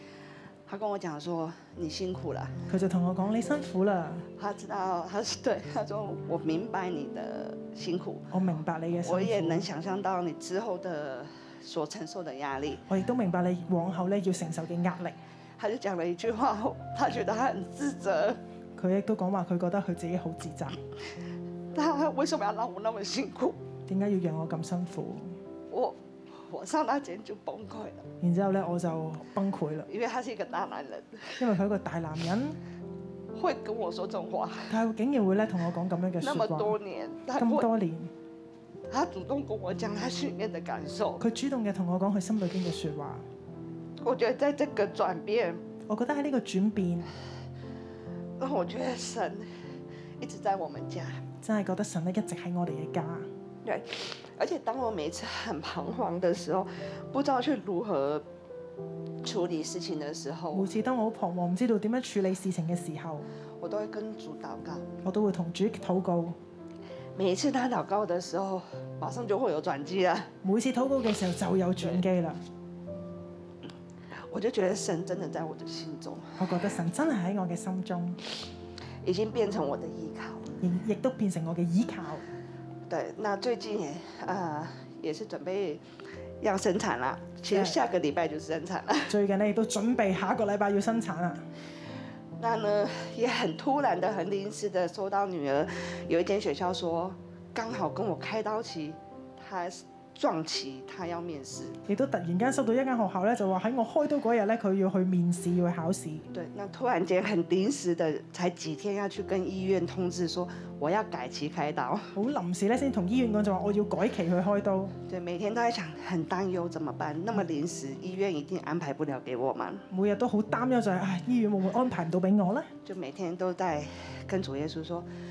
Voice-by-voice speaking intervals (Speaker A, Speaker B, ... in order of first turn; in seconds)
Speaker A: 0.7-2.5, 4.4-8.3, 9.0-12.8, 15.6-18.4, 21.7-23.6, 25.7-28.1, 29.9-31.4, 33.3-34.7, 36.2-37.7, 38.9-41.2, 44.0-45.6, 48.4-49.5, 50.2-51.2, 53.6-58.2, 59.2-60.7, 63.6-64.8, 67.2-70.3, 74.3-76.3, 79.0-80.5, 82.9-85.8, 86.4-89.1, 92.4-101.8, 106.3-112.1, 115.1-119.8, 122.8-125.0
Speaker B: 2.7-4.2, 8.3-9.7, 12.9-15.2, 18.8-20.8, 23.9-25.3, 28.2-29.9, 31.4-32.6, 34.7-36.7, 37.4-38.1, 41.2-43.2, 45.9-47.1, 51.4-53.3, 60.5-63.3, 65.0-66.4, 70.4-72.4, 76.4-78.2, 80.6-82.2, 87.5-87.8, 89.1-91.4, 101.9-106.2, 112.2-114.9, 119.9-122.7